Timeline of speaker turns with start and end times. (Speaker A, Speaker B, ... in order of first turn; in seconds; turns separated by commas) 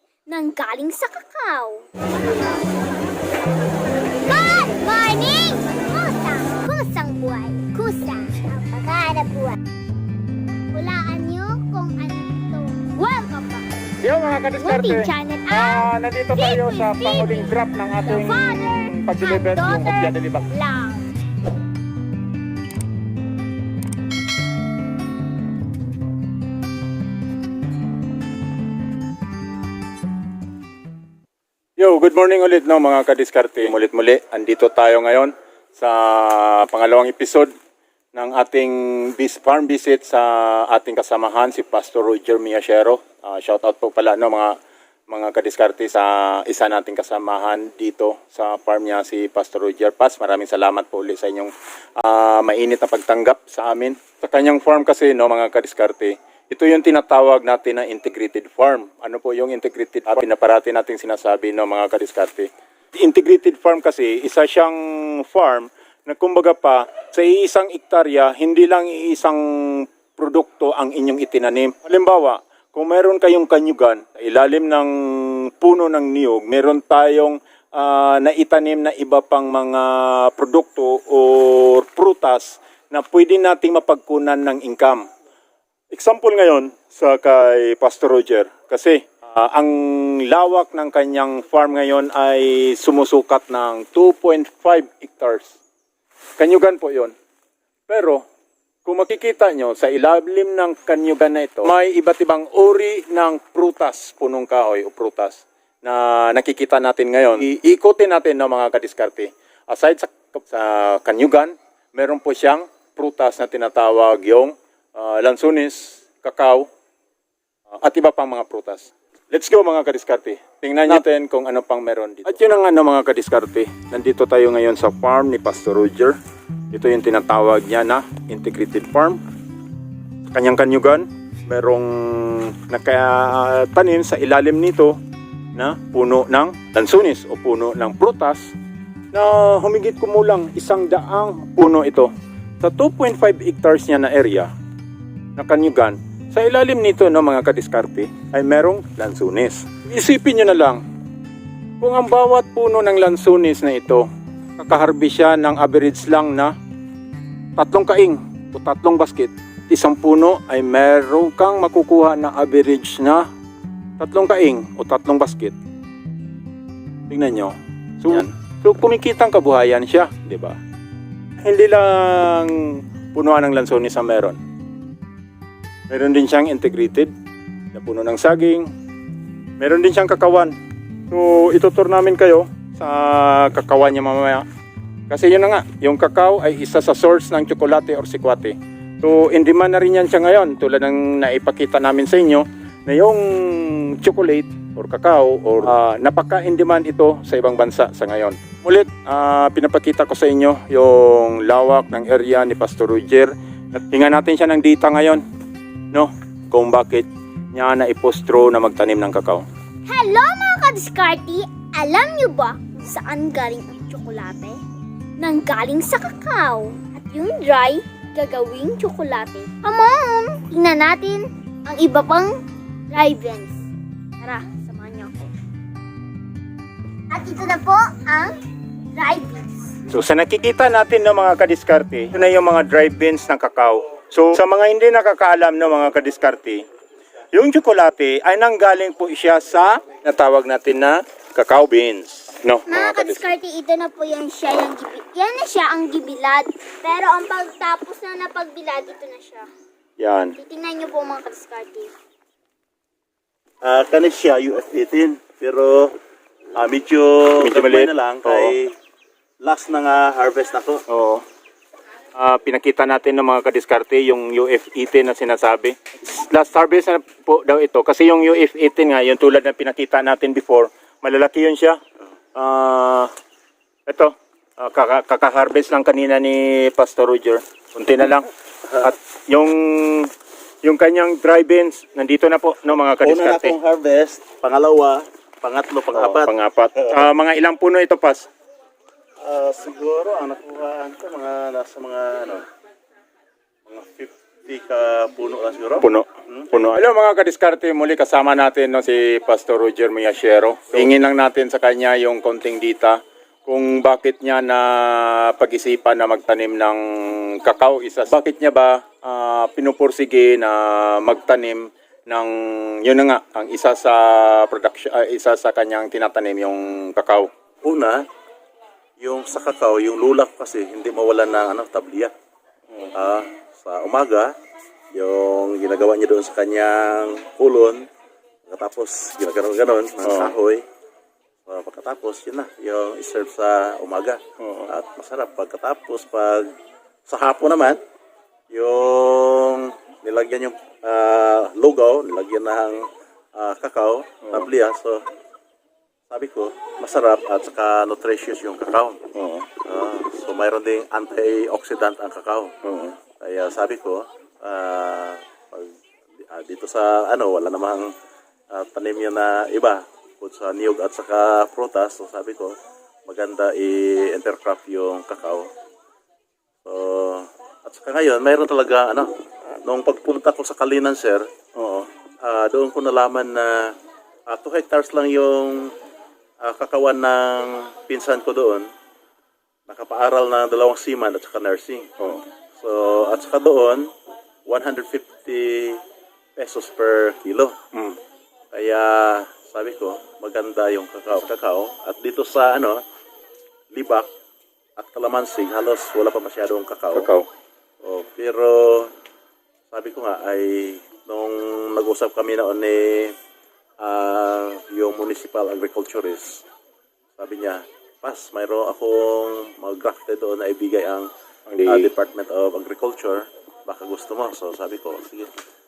Speaker A: 0.3-1.9, Speaker A: 4.2-9.6, Speaker A: 10.7-21.1, Speaker B: 14.0-20.5, Speaker B: 31.8-37.5, Speaker B: 38.1-44.6, Speaker B: 45.1-85.0, Speaker B: 85.9-95.5, Speaker B: 96.4-97.1, Speaker B: 97.9-98.2, Speaker B: 98.8-116.7, Speaker B: 117.8-126.2, Speaker B: 126.7-129.2, Speaker B: 130.3-135.0, Speaker B: 135.5-138.5, Speaker B: 139.1-144.5, Speaker B: 145.4-150.8, Speaker B: 151.8-154.1, Speaker B: 154.6-156.5, Speaker B: 157.6-163.3, Speaker B: 164.0-165.6, Speaker B: 167.1-170.6, Speaker B: 171.4-174.4, Speaker B: 175.9-177.1, Speaker B: 177.7-178.7, Speaker B: 179.6-180.6, Speaker B: 181.1-184.4, Speaker B: 185.1-205.2, Speaker B: 205.9-209.4, Speaker A: 209.8-214.6, Speaker A: 215.2-222.3, Speaker A: 222.9-223.6, Speaker A: 224.2-225.3, Speaker A: 227.1-228.3, Speaker A: 228.9-229.5, Speaker B: 229.9-236.6, Speaker B: 237.3-243.3, Speaker A: 242.7-249.5, Speaker B: 250.0-250.3, Speaker A: 250.3-251.9, Speaker C: 253.6-255.9, Speaker C: 256.5-258.7, Speaker B: 257.4-258.6, Speaker C: 259.4-260.8, Speaker B: 260.9-261.2, Speaker B: 262.1-271.8, Speaker B: 272.3-273.1, Speaker B: 273.9-283.6, Speaker C: 283.0-287.0, Speaker B: 285.9-288.3, Speaker C: 289.2-292.4, Speaker C: 293.7-296.5, Speaker B: 295.8-317.3, Speaker C: 317.6-318.1, Speaker C: 319.0-322.1, Speaker C: 322.9-324.3, Speaker C: 324.9-327.9, Speaker C: 328.5-330.6, Speaker B: 330.0-330.3, Speaker C: 331.4-336.5, Speaker B: 334.4-334.7, Speaker C: 337.1-337.8, Speaker C: 338.5-345.0, Speaker C: 346.1-349.0, Speaker B: 349.1-349.5, Speaker C: 349.6-352.5, Speaker B: 352.6-353.0, Speaker C: 353.2-357.9, Speaker C: 358.5-365.5, Speaker C: 366.6-369.1, Speaker C: 369.6-371.3, Speaker B: 371.6-371.9, Speaker C: 372.2-373.7, Speaker C: 374.3-375.7, Speaker C: 376.4-378.7, Speaker C: 379.7-381.9, Speaker B: 382.0-382.2, Speaker C: 382.6-383.9, Speaker C: 384.4-385.8, Speaker C: 386.4-387.5, Speaker C: 388.5-392.8, Speaker C: 393.7-394.1, Speaker C: 394.8-397.1, Speaker B: 396.9-397.3, Speaker C: 397.8-398.9, Speaker C: 399.7-403.1, Speaker C: 403.8-406.4, Speaker C: 407.1-411.1, Speaker B: 411.5-411.9, Speaker C: 411.6-415.3